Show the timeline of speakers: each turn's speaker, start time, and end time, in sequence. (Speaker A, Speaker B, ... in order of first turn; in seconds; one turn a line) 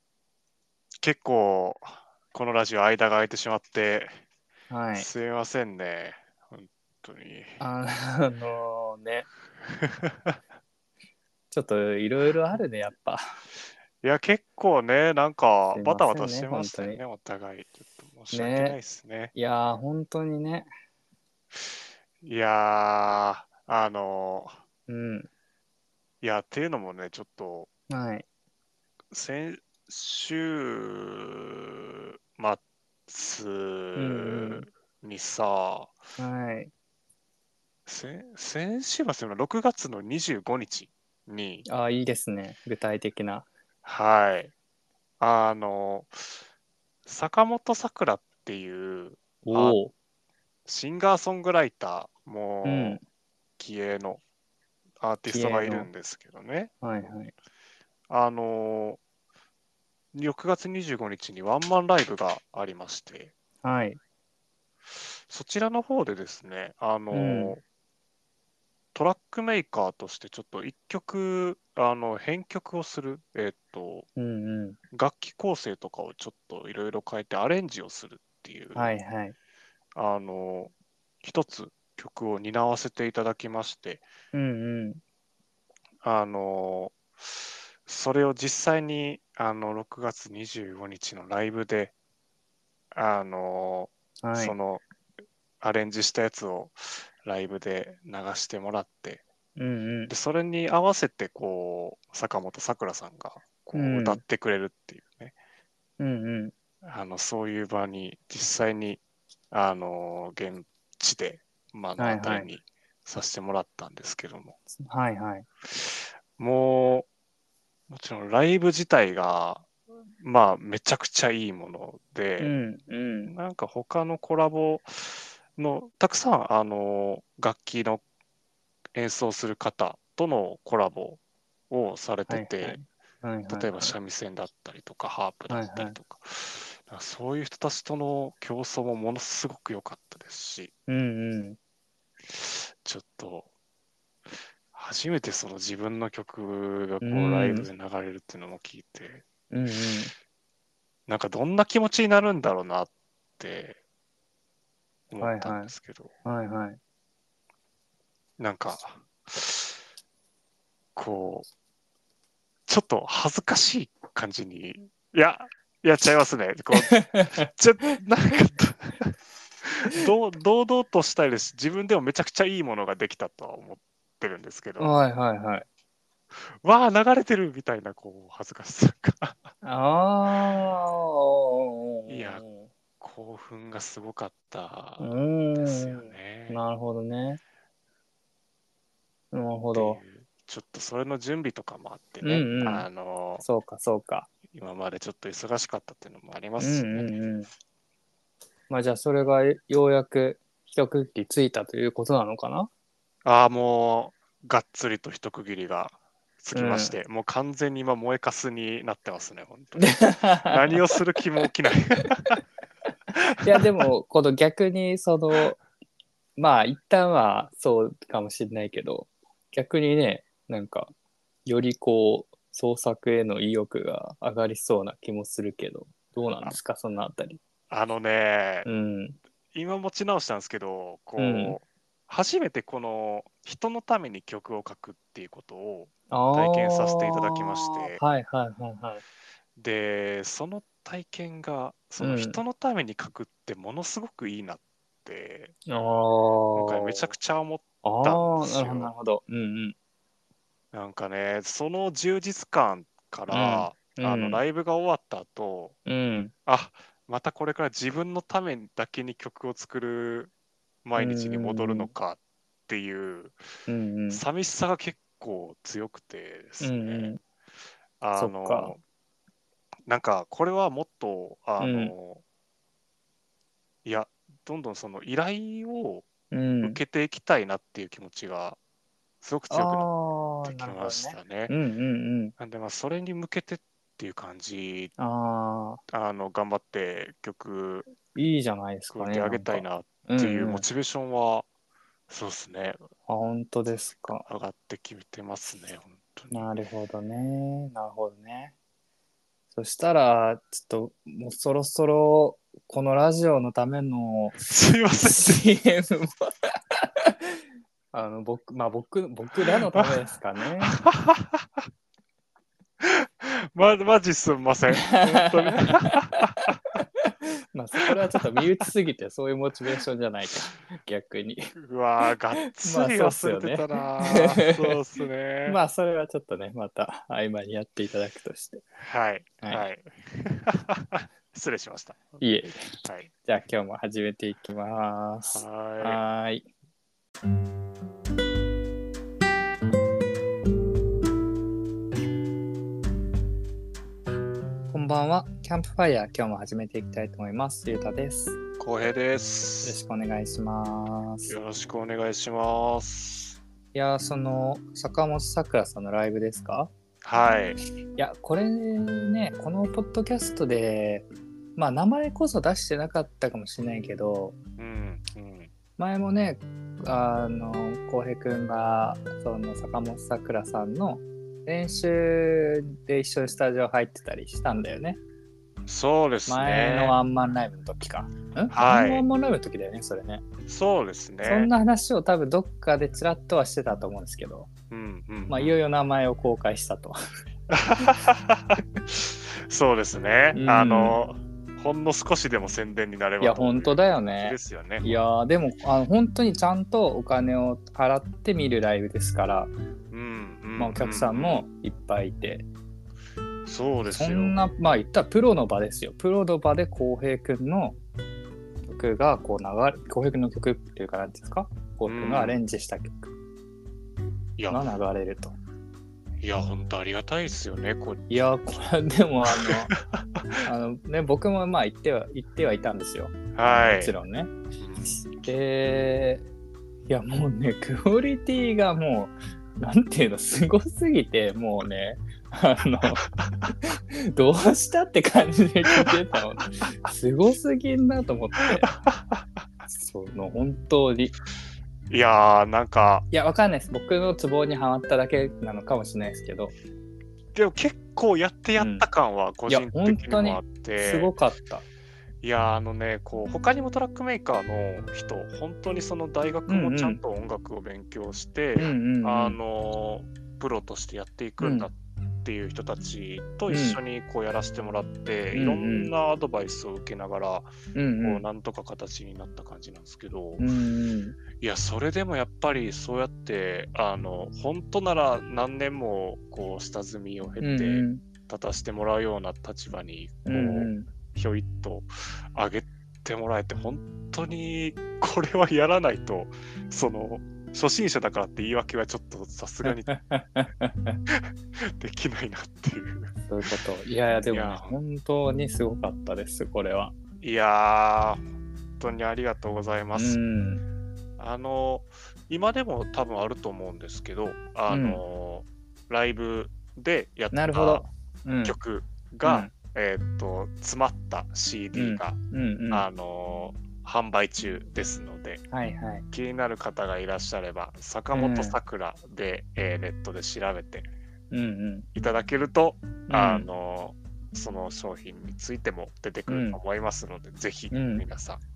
Speaker A: 1.0-4.2
Speaker B: 4.7-5.1
Speaker A: 4.9-7.6
Speaker B: 7.6-9.3
Speaker A: 9.6-10.3
Speaker B: 11.5-13.2
Speaker A: 14.0-19.3
Speaker B: 15.7-17.0
Speaker B: 18.3-18.8
Speaker B: 19.3-20.7
Speaker A: 21.5-24.6
Speaker B: 24.9-25.3
Speaker A: 26.2-27.7
Speaker B: 27.9-28.2
Speaker A: 29.1-31.6
Speaker A: 32.3-36.0
Speaker B: 34.0-34.6
Speaker B: 36.2-36.7
Speaker A: 37.9-41.6
Speaker B: 41.6-43.5
Speaker A: 43.8-44.5
Speaker A: 45.2-46.4
Speaker A: 47.0-49.8
Speaker B: 49.4-49.9
Speaker A: 50.6-53.0
Speaker B: 52.6-53.0
Speaker A: 53.6-54.2
Speaker A: 55.0-56.7
Speaker B: 55.3-55.9
Speaker B: 56.8-57.3
Speaker A: 58.1-59.0
Speaker A: 60.1-63.3
Speaker B: 63.6-64.0
Speaker A: 65.0-67.6
Speaker B: 67.1-67.6
Speaker A: 68.9-74.1
Speaker B: 74.2-74.8
Speaker A: 74.9-78.9
Speaker B: 78.7-79.3
Speaker A: 79.9-84.1
Speaker B: 84.3-85.0
Speaker A: 86.0-91.9
Speaker A: 92.9-94.8
Speaker B: 94.2-94.5
Speaker A: 95.6-99.2
Speaker B: 99.5-100.1
Speaker A: 100.1-105.3
Speaker B: 103.7-104.2
Speaker B: 106.0-106.5
Speaker A: 106.8-114.5
Speaker B: 112.0-112.5
Speaker B: 114.7-115.5
Speaker A: 115.7-117.1
Speaker A: 117.9-119.7
Speaker A: 120.2-122.5
Speaker B: 122.4-123.3
Speaker A: 123.2-128.0
Speaker A: 128.9-132.8
Speaker B: 132.3-133.9
Speaker A: 133.5-140.7
Speaker B: 135.5-136.0
Speaker B: 140.9-141.6
Speaker A: 142.2-143.5
Speaker A: 144.7-149.3
Speaker B: 147.0-147.7
Speaker B: 149.5-150.1
Speaker A: 151.1-153.8
Speaker A: 155.1-156.1
Speaker B: 155.2-155.7
Speaker B: 156.2-156.8
Speaker A: 158.4-159.8
Speaker A: 160.9-161.5
Speaker A: 162.7-174.9
Speaker B: 166.9-167.3
Speaker B: 174.8-175.7
Speaker A: 176.3-179.5
Speaker B: 179.6-182.7
Speaker A: 182.1-182.4
Speaker A: 183.0-186.6
Speaker B: 185.0-187.4
Speaker B: 189.3-190.0
Speaker A: 189.7-193.4
Speaker B: 192.2-192.8
Speaker B: 193.4-194.3
Speaker A: 194.5-197.2
Speaker B: 196.6-197.5
Speaker B: 198.7-202.7
Speaker A: 203.2-212.4
Speaker B: 206.5-206.9
Speaker B: 209.8-210.7
Speaker A: 213.1-213.8
Speaker B: 213.4-215.6
Speaker B: 216.4-220.9
Speaker B: 221.4-227.4
Speaker A: 227.7-228.7
Speaker B: 228.7-229.2
Speaker A: 229.5-238.0
Speaker B: 231.2-231.6
Speaker B: 236.1-239.0
Speaker A: 239.6-245.5
Speaker B: 242.0-242.4
Speaker B: 245.7-247.1
Speaker A: 246.5-248.9
Speaker B: 247.8-249.8
Speaker A: 250.7-255.8
Speaker B: 253.3-254.4
Speaker B: 255.8-256.3
Speaker A: 256.4-260.3
Speaker A: 260.8-263.4
Speaker B: 261.0-261.9
Speaker B: 263.7-264.2
Speaker A: 264.1-267.2
Speaker B: 266.6-267.2
Speaker A: 268.0-268.8
Speaker B: 268.1-268.7
Speaker A: 269.9-272.2
Speaker B: 271.6-271.9
Speaker A: 273.8-276.1
Speaker B: 276.3-276.8
Speaker A: 276.6-278.6
Speaker A: 279.2-279.9
Speaker B: 279.5-282.4
Speaker A: 280.4-281.5
Speaker A: 282.4-284.9
Speaker B: 285.0-285.8
Speaker A: 285.9-287.9
Speaker B: 288.1-290.7
Speaker A: 288.9-291.5
Speaker A: 292.1-292.9
Speaker B: 293.1-294.2
Speaker A: 294.0-296.5
Speaker B: 296.3-298.5
Speaker B: 299.5-304.4
Speaker A: 304.4-305.5
Speaker B: 305.0-307.4
Speaker B: 307.9-310.8
Speaker A: 310.7-311.4
Speaker A: 312.8-316.6
Speaker B: 314.8-321.5
Speaker A: 317.8-318.4
Speaker A: 321.6-325.6
Speaker B: 322.6-324.7
Speaker B: 325.4-328.6
Speaker A: 328.8-332.2
Speaker B: 332.2-336.5
Speaker A: 332.8-333.1
Speaker A: 335.3-336.0
Speaker B: 344.7-348.4
Speaker A: 348.6-349.8
Speaker B: 349.6-351.3
Speaker A: 351.3-353.4
Speaker B: 353.7-356.7
Speaker A: 357.0-357.6
Speaker B: 358.0-364.4
Speaker A: 364.6-365.5
Speaker B: 365.8-375.0
Speaker A: 375.7-377.0
Speaker B: 376.3-380.2
Speaker A: 378.5-379.1
Speaker A: 380.5-381.5
Speaker B: 381.2-384.5
Speaker A: 384.7-385.6
Speaker B: 385.3-386.9
Speaker A: 387.5-395.0
Speaker B: 390.3-391.0
Speaker B: 393.2-399.5
Speaker A: 399.9-401.4
Speaker B: 400.6-402.4
Speaker A: 403.4-404.4
Speaker B: 403.9-407.8
Speaker B: 408.6-413.1
Speaker A: 411.9-412.4
Speaker A: 414.4-414.6
Speaker B: 414.5-415.4
Speaker A: 416.2-418.0
Speaker B: 418.1-419.7
Speaker A: 419.3-420.4
Speaker B: 420.4-424.3
Speaker A: 423.4-423.9
Speaker A: 424.6-425.1
Speaker B: 424.9-426.2
Speaker B: 426.9-438.7
Speaker A: 433.0-433.5
Speaker A: 438.5-439.3
Speaker B: 439.7-441.1
Speaker A: 441.9-443.1
Speaker B: 443.1-446.5
Speaker A: 447.3-451.1
Speaker B: 448.6-448.9
Speaker B: 449.5-451.6
Speaker A: 452.2-470.5
Speaker B: 456.5-457.0
Speaker B: 458.6-459.4
Speaker B: 461.4-461.7
Speaker B: 463.5-463.8
Speaker B: 465.3-465.9
Speaker B: 467.7-468.2
Speaker B: 470.4-471.2
Speaker A: 471.4-489.9
Speaker B: 477.4-478.0
Speaker B: 480.2-480.9
Speaker B: 489.6-491.0
Speaker A: 491.1-493.1
Speaker B: 493.3-496.9
Speaker A: 494.3-494.8
Speaker A: 497.2-498.2
Speaker A: 498.8-500.2
Speaker B: 499.9-500.6
Speaker A: 501.2-507.9
Speaker B: 504.7-505.0
Speaker B: 507.3-508.6
Speaker A: 508.4-512.2
Speaker B: 509.2-509.5
Speaker B: 511.7-512.8
Speaker A: 512.7-515.4
Speaker B: 515.5-516.0
Speaker A: 516.1-520.9
Speaker B: 518.1-518.6
Speaker B: 521.3-521.9
Speaker A: 521.9-528.4
Speaker B: 523.1-523.5
Speaker B: 526.3-526.6
Speaker B: 527.7-528.0